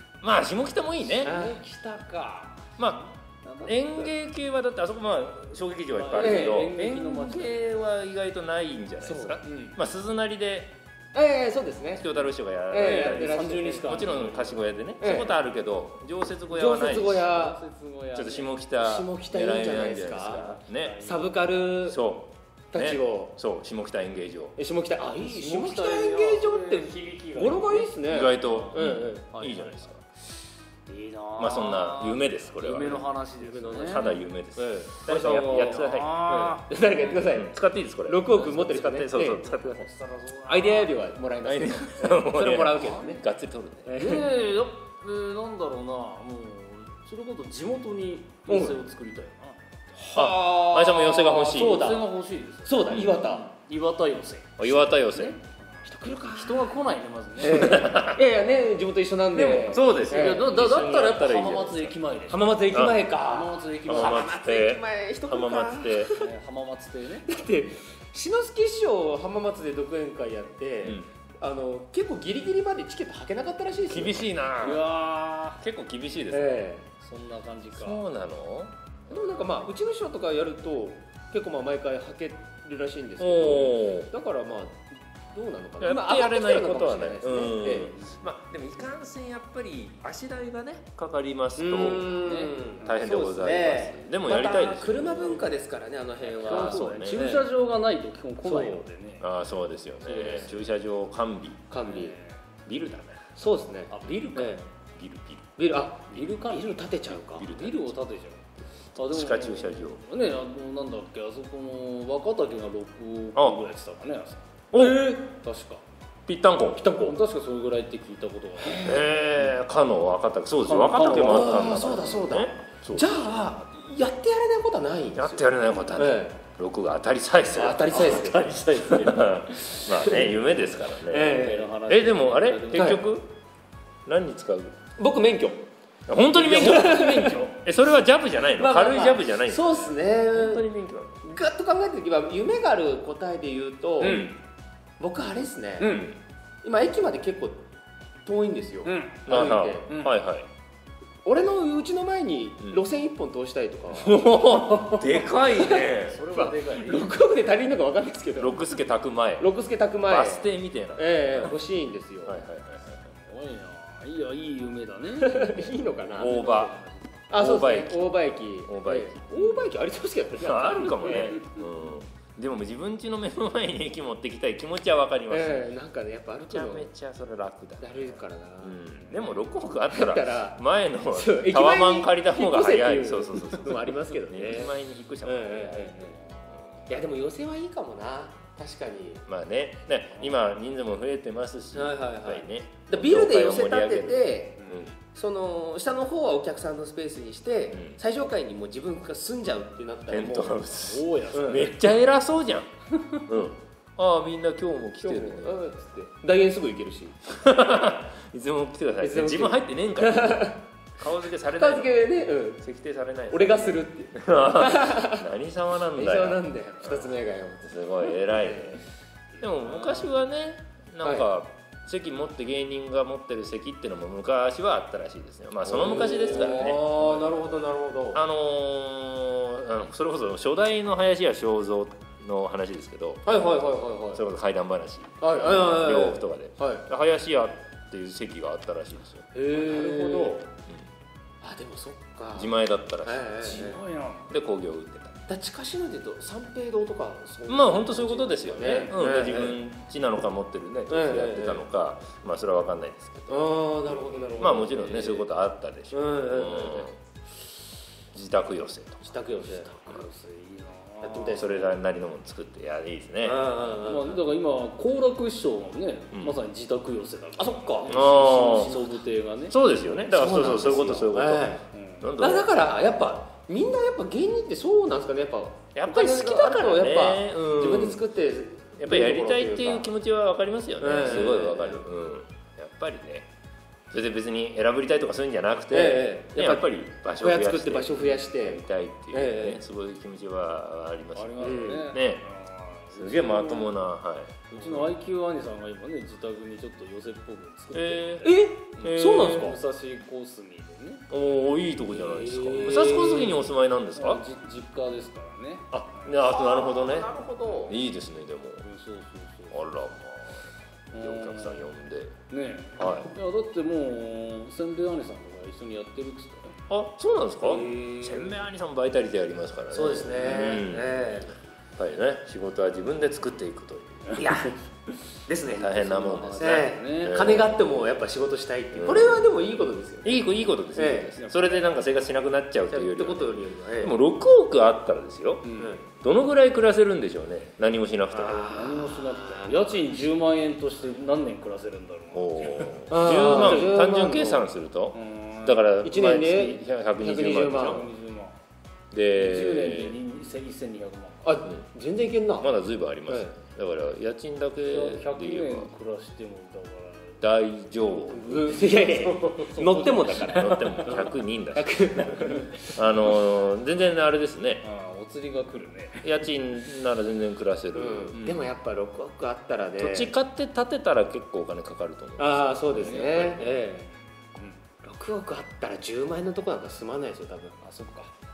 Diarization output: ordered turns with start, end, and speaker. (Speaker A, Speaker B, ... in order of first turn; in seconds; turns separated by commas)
Speaker A: 0.2-1.4, Speaker B: 1.1-4.1, Speaker C: 1.2-1.6, Speaker A: 2.8-3.0, Speaker A: 3.6-10.8, Speaker B: 6.0-7.8, Speaker C: 6.2-7.0, Speaker C: 9.0-9.4, Speaker B: 9.4-9.8, Speaker C: 11.1-12.1, Speaker A: 12.0-17.4, Speaker C: 12.7-14.0, Speaker B: 12.8-14.5, Speaker C: 15.0-15.4, Speaker C: 16.5-17.6, Speaker B: 17.0-18.5, Speaker A: 18.1-21.0, Speaker C: 18.8-22.0, Speaker B: 20.3-21.3, Speaker A: 21.8-24.5, Speaker C: 22.7-23.3, Speaker C: 24.6-29.3, Speaker B: 25.1-29.9, Speaker A: 28.1-30.0, Speaker B: 30.9-34.1, Speaker A: 31.4-33.1, Speaker C: 33.4-35.7, Speaker A: 33.7-36.2, Speaker B: 35.1-37.2, Speaker C: 36.2-39.5, Speaker A: 37.3-39.9, Speaker B: 39.2-41.0, Speaker C: 40.5-43.2, Speaker A: 41.4-43.9, Speaker B: 42.8-43.2, Speaker C: 43.8-44.3, Speaker B: 44.0-49.6, Speaker C: 48.5-48.8, Speaker C: 50.0-52.1, Speaker A: 50.1-51.9, Speaker B: 51.0-55.5, Speaker C: 52.6-53.5, Speaker A: 54.6-55.4, Speaker C: 55.8-56.8, Speaker B: 56.3-57.9, Speaker C: 57.4-61.2, Speaker A: 57.5-58.2, Speaker B: 59.3-64.3, Speaker A: 59.3-61.9, Speaker C: 62.3-66.3, Speaker A: 62.7-63.1, Speaker A: 63.8-66.1, Speaker B: 66.1-67.3, Speaker C: 67.2-74.2, Speaker A: 73.9-74.8, Speaker B: 74.6-75.6, Speaker A: 75.6-76.6, Speaker C: 76.3-76.9, Speaker B: 77.0-78.0, Speaker A: 77.7-79.5, Speaker C: 79.1-87.9, Speaker A: 83.2-84.1, Speaker A: 85.8-92.1, Speaker B: 87.7-88.1, Speaker C: 91.6-97.5, Speaker B: 92.2-93.0, Speaker A: 92.8-95.6, Speaker B: 96.3-99.3, Speaker A: 96.4-97.3, Speaker C: 98.4-98.8, Speaker A: 99.2-101.6, Speaker B: 100.0-100.6, Speaker C: 100.1-100.4, Speaker C: 101.7-102.2, Speaker B: 101.8-102.3, Speaker A: 102.7-103.2, Speaker C: 103.3-104.7, Speaker B: 103.9-104.6, Speaker A: 104.9-105.4, Speaker C: 105.6-107.5, Speaker B: 106.1-108.4, Speaker A: 107.4-107.9, Speaker B: 109.0-114.4, Speaker A: 109.0-110.0, Speaker A: 113.3-113.6, Speaker A: 114.7-115.1, Speaker C: 114.8-115.3, Speaker B: 115.3-115.8, Speaker A: 116.3-116.9, Speaker C: 116.8-117.2, Speaker B: 117.0-119.0, Speaker C: 118.7-119.0, Speaker A: 118.7-123.1, Speaker B: 120.6-121.9, Speaker C: 121.0-126.4, Speaker A: 125.1-128.0, Speaker C: 127.5-128.7, Speaker B: 127.8-130.6, Speaker A: 128.9-133.3, Speaker C: 130.0-130.3, Speaker C: 131.0-131.7, Speaker B: 131.1-133.0, Speaker C: 132.7-133.0, Speaker A: 134.1-134.8, Speaker C: 135.0-135.6, Speaker A: 136.1-141.2, Speaker C: 136.3-137.5, Speaker C: 138.5-140.7, Speaker C: 141.2-144.3, Speaker A: 144.0-144.3, Speaker B: 144.0-144.3, Speaker C: 145.0-146.0, Speaker B: 145.8-146.1, Speaker A: 145.8-146.2, Speaker C: 146.6-147.6, Speaker C: 148.2-149.9, Speaker B: 148.8-149.3, Speaker A: 149.3-150.5, Speaker B: 149.9-150.2, Speaker C: 151.2-154.3, Speaker A: 153.9-156.2, Speaker B: 155.1-157.2, Speaker C: 155.5-158.6, Speaker A: 158.4-159.5, Speaker C: 159.4-162.4, Speaker A: 160.1-161.6, Speaker A: 162.2-162.8, Speaker B: 162.9-167.2, Speaker C: 165.1-166.4, Speaker A: 166.2-166.7, Speaker C: 167.3-171.4, Speaker A: 167.4-169.3, Speaker B: 169.3-169.7, Speaker A: 170.4-175.7, Speaker B: 170.9-171.6, Speaker C: 175.3-176.9, Speaker A: 176.4-186.2, Speaker C: 177.8-178.8, Speaker B: 179.0-179.5, Speaker C: 179.9-186.2, Speaker B: 185.9-187.0, Speaker C: 186.9-189.2, Speaker A: 189.3-194.9, Speaker B: 190.1-190.4, Speaker C: 191.7-200.6, Speaker B: 194.6-194.9, Speaker A: 200.1-202.7, Speaker B: 200.7-201.9, Speaker C: 201.3-201.7, Speaker A: 203.3-205.7, Speaker C: 205.0-207.2, Speaker A: 207.3-212.0, Speaker C: 209.0-210.6, Speaker C: 211.4-212.6, Speaker A: 212.6-218.8, Speaker C: 213.3-215.3, Speaker C: 215.9-218.8, Speaker A: 219.4-227.6, Speaker B: 219.4-220.2, Speaker C: 221.0-221.3, Speaker C: 225.7-228.2, Speaker A: 228.1-233.4, Speaker C: 233.2-234.2, Speaker A: 234.1-239.3, Speaker C: 235.2-236.8, Speaker B: 239.3-240.4, Speaker C: 239.5-240.4, Speaker C: 241.4-243.8, Speaker A: 242.3-243.3, Speaker B: 243.4-244.3, Speaker A: 244.3-245.2, Speaker C: 245.3-249.6, Speaker A: 247.5-253.5, Speaker C: 250.9-251.7, Speaker C: 253.3-255.2, Speaker B: 254.2-255.2, Speaker A: 254.4-256.9, Speaker C: 255.9-256.9, Speaker A: 258.1-259.1, Speaker C: 259.0-259.9, Speaker B: 259.3-261.8, Speaker C: 261.0-261.6, Speaker A: 261.3-263.6, Speaker C: 263.2-264.2, Speaker B: 263.8-269.6, Speaker A: 266.1-266.4, Speaker C: 267.4-269.0, Speaker A: 267.9-268.8, Speaker A: 269.5-272.6, Speaker C: 270.0-271.6, Speaker B: 271.7-272.1, Speaker C: 272.2-279.9, Speaker A: 275.7-278.1, Speaker A: 278.8-283.3, Speaker C: 280.8-281.9, Speaker A: 283.9-292.2, Speaker C: 285.7-289.6, Speaker B: 291.1-293.9, Speaker C: 291.4-291.8, Speaker A: 292.9-294.9, Speaker B: 294.5-301.1, Speaker A: 297.7-299.4, Speaker C: 298.2-299.6, Speaker A: 301.1-304.2, Speaker B: 302.0-306.2, Speaker A: 305.7-307.1, Speaker C: 306.2-307.8, Speaker A: 307.6-308.7, Speaker B: 308.6-309.6, Speaker A: 309.5-310.4, Speaker B: 310.9-311.7, Speaker A: 310.9-312.2, Speaker B: 312.3-316.6, Speaker A: 312.8-313.1, Speaker A: 316.7-321.1, Speaker B: 317.5-318.1, Speaker C: 317.6-318.2, Speaker C: 319.7-321.3, Speaker A: 321.8-324.2, Speaker C: 324.1-324.6, Speaker C: 325.2-330.2, Speaker B: 325.5-327.2, Speaker A: 325.6-327.6, Speaker A: 328.7-329.3, Speaker A: 330.0-338.6, Speaker C: 330.7-331.2, Speaker B: 331.2-331.6, Speaker C: 332.7-334.0, Speaker B: 335.4-335.8, Speaker C: 335.5-335.8, Speaker C: 338.1-339.8, Speaker B: 338.3-343.7, Speaker A: 342.1-347.9, Speaker C: 342.9-344.5, Speaker B: 344.9-345.7, Speaker C: 345.8-347.9, Speaker B: 347.6-348.4, Speaker A: 348.9-350.0, Speaker B: 349.2-351.3, Speaker C: 351.2-352.5, Speaker A: 352.4-355.7, Speaker C: 353.1-353.3, Speaker B: 354.6-357.2, Speaker A: 357.2-358.6, Speaker C: 358.1-362.7, Speaker B: 358.5-361.1, Speaker A: 360.1-364.7, Speaker B: 364.6-366.1, Speaker A: 366.0-368.4, Speaker C: 367.7-370.1, Speaker A: 369.8-373.4, Speaker C: 372.2-373.9, Speaker B: 372.7-373.7, Speaker B: 374.3-374.6, Speaker C: 374.8-377.6, Speaker B: 377.6-378.1